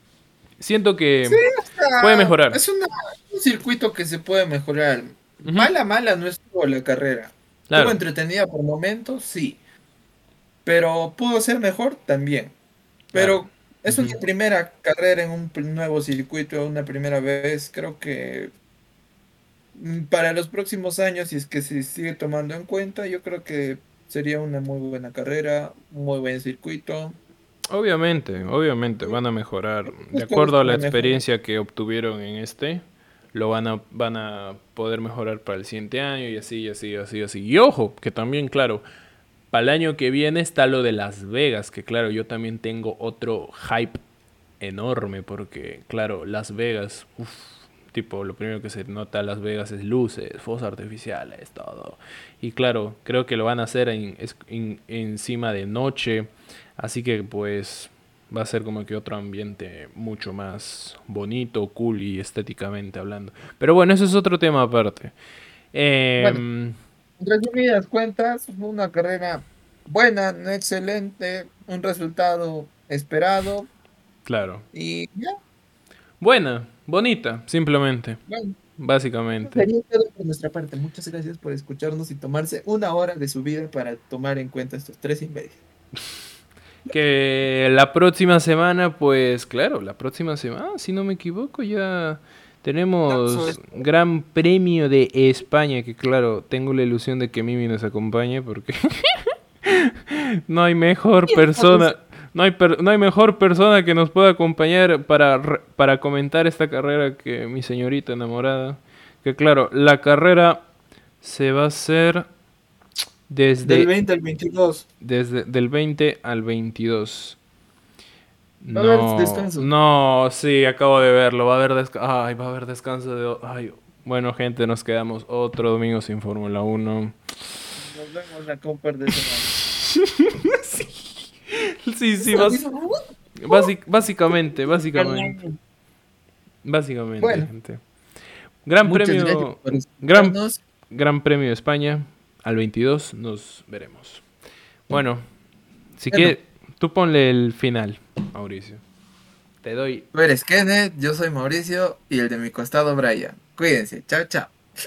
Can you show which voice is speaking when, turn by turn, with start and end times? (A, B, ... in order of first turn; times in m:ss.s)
0:00.6-0:01.4 A
0:01.2-0:09.6 B
0:02.0-0:02.6 A
0:05.4-0:05.7 A
0:07.7-0:08.0 A
0:10.6-0:12.5 B
0:13.1-0:18.5 B
0:13.1-0:14.2 A
0:19.7-0:27.2 B
0:27.7-0:38.8 A
0:30.0-0:31.2 B
0:39.5-0:44.0 A
0:44.6-1:05.1 A
1:05.7-1:06.8 A
1:06.2-1:06.4 B
1:07.2-1:13.7 B
1:14.2-1:14.6 A
1:14.7-1:15.4 B
1:16.2-1:18.2 A
1:18.3-1:18.6 B
1:18.8-1:19.7 A
1:19.4-1:25.6 B
1:26.8-1:50.6 A
1:33.1-1:33.8 B
1:41.3-1:41.9 B
1:51.2-1:52.3 A
1:53.3-1:53.9 A
1:53.6-1:54.8 B
1:55.0-1:57.4 A
1:58.6-2:07.2 A
1:58.7-1:59.7 B
2:07.8-2:09.5 B
2:10.3-2:12.7 A
2:12.3-2:13.6 B
2:13.4-2:15.4 A
2:14.9-2:15.6 B
2:16.6-2:17.8 A
2:17.2-2:17.5 B
2:18.6-2:24.2 A
2:18.8-2:20.6 B
2:24.9-2:25.2 A
2:26.0-2:28.8 A
2:29.6-2:30.0 A
2:30.1-2:34.5 B